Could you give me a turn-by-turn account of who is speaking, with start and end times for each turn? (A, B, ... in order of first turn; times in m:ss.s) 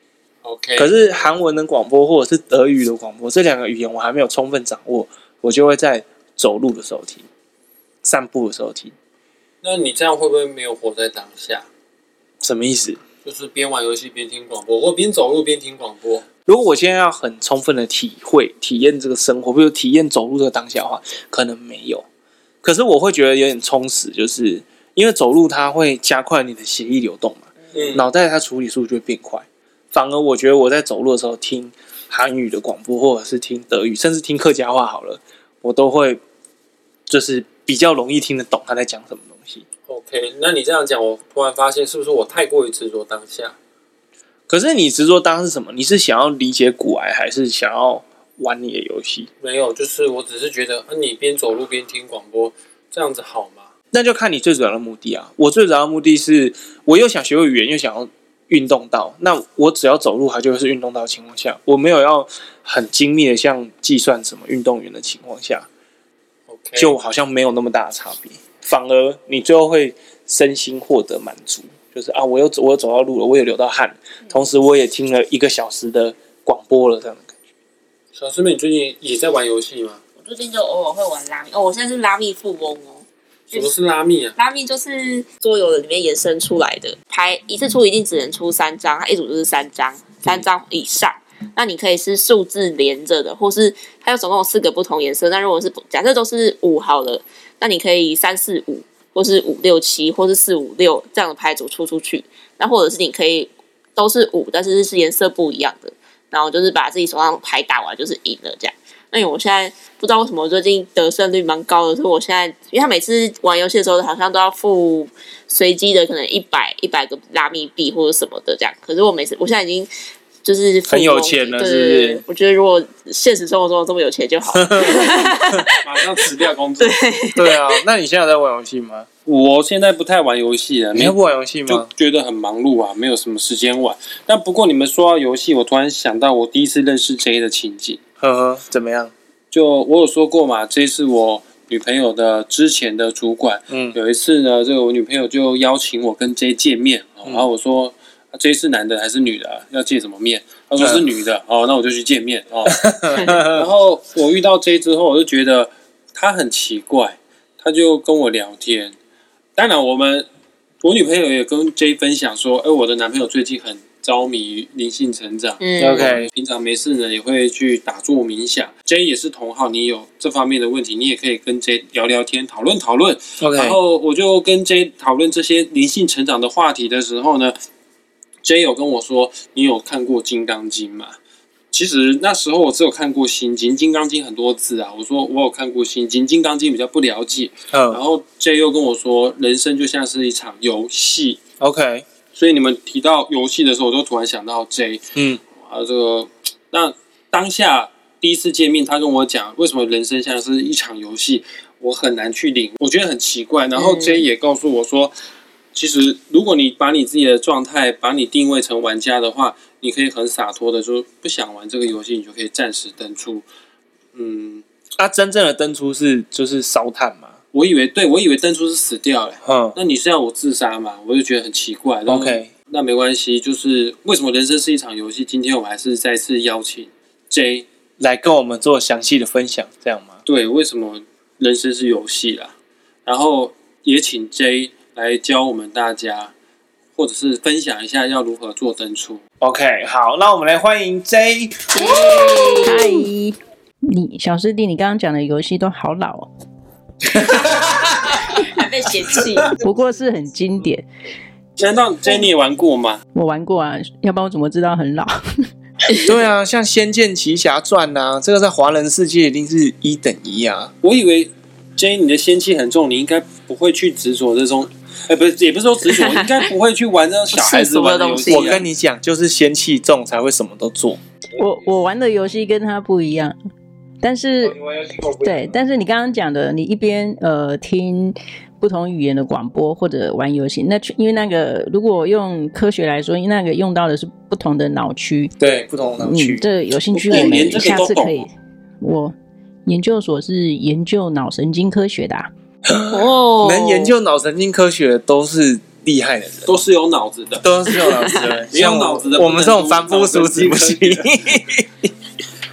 0:00.4-0:01.0 A
0:00.8-0:07.2 B
0:08.0-0:08.9 B
0:09.6-0:11.6 A
0:12.4-0:13.0 B
0:13.2-0:16.2 A
0:16.5-0:22.0 B
0:22.6-0:36.2 B
0:27.7-0:28.0 A
0:37.1-0:39.6 B
0:39.9-0:43.5 A
0:44.5-0:49.3 B
0:49.4-0:53.7 A
0:53.9-1:05.6 B
1:06.5-1:06.9 A
1:06.8-1:17.3 B
1:18.1-1:20.0 A
1:20.2-1:23.7 C
1:23.5-1:24.4 A
1:24.4-1:59.9 C
2:00.4-2:07.8 C
2:00.9-2:02.2 B
2:04.5-2:05.6 B
2:05.8-2:07.0 A
2:07.3-2:09.1 B
2:09.2-2:11.2 A
2:10.9-2:11.9 B
2:11.7-2:18.0 A
2:18.2-2:19.1 B
2:19.5-2:38.9 A
2:23.7-2:24.0 B
2:30.8-2:31.1 B
2:32.7-2:33.6 B
2:39.6-2:40.2 A
2:40.8-2:57.6 A
2:45.6-2:46.1 C
2:45.8-2:46.3 B
2:53.4-2:53.8 B
2:58.4-3:01.2 A
3:01.7-3:11.4 A
3:07.7-3:08.0 B
3:11.6-3:12.0 B
3:12.3-3:25.1 A
3:15.1-3:15.4 B
3:23.8-3:24.2 C
3:25.7-3:33.4 A
3:34.1-3:34.6 A
3:35.0-3:37.3 B
3:37.5-3:47.7 A
3:39.4-3:39.8 B
3:42.1-3:42.5 B
3:48.0-3:50.2 B
3:50.2-3:52.5 A
3:53.0-3:56.3 A
3:56.9-3:59.2 A
3:59.4-4:02.0 B
4:01.7-4:03.1 C
4:02.6-4:06.3 D
4:07.0-4:08.4 B
4:08.2-4:09.6 C
4:09.6-4:10.8 D
4:11.6-4:13.0 A
4:13.1-4:15.5 D
4:15.9-4:20.7 B
4:20.8-4:28.6 A
4:26.0-4:26.3 C
4:27.3-4:28.6 C
4:28.3-4:31.0 B
4:31.3-4:33.4 D
4:34.0-4:45.3 D
4:45.4-4:46.4 B
4:46.0-4:48.3 D
4:47.0-4:48.3 A
4:48.8-4:52.3 D
4:52.6-4:56.6 B
4:52.8-4:53.9 C
4:56.4-5:01.1 A
4:57.4-5:01.9 B